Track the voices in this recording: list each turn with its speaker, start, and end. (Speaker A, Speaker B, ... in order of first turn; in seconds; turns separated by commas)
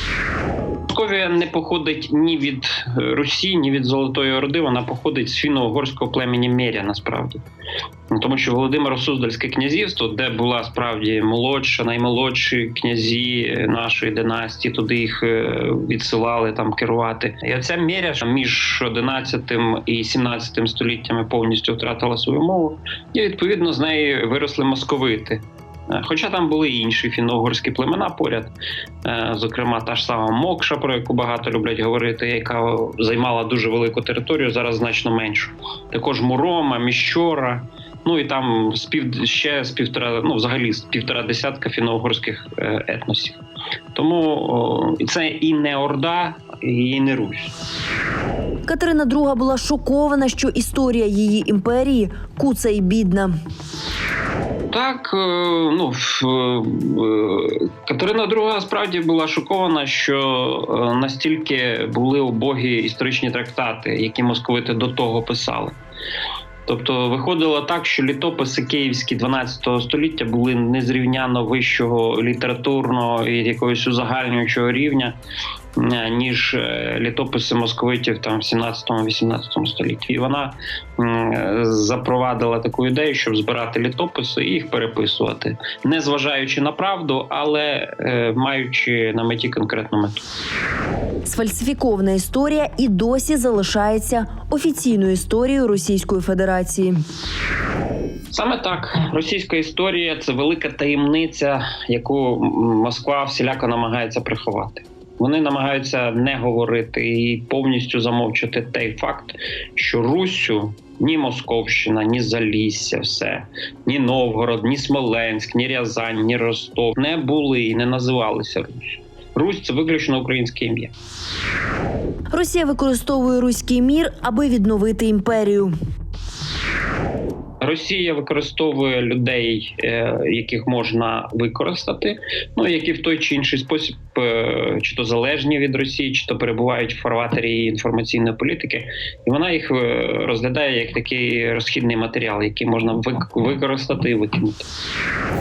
Speaker A: 0.9-7.4, Speaker A: 8.1-28.5, Speaker A: 29.0-43.4, Speaker A: 43.9-47.5, Speaker B: 48.6-53.3, Speaker A: 54.7-65.8, Speaker A: 66.7-75.2, Speaker A: 75.8-90.2, Speaker B: 91.2-97.0, Speaker A: 98.3-120.9, Speaker B: 122.3-125.7, Speaker A: 127.6-144.7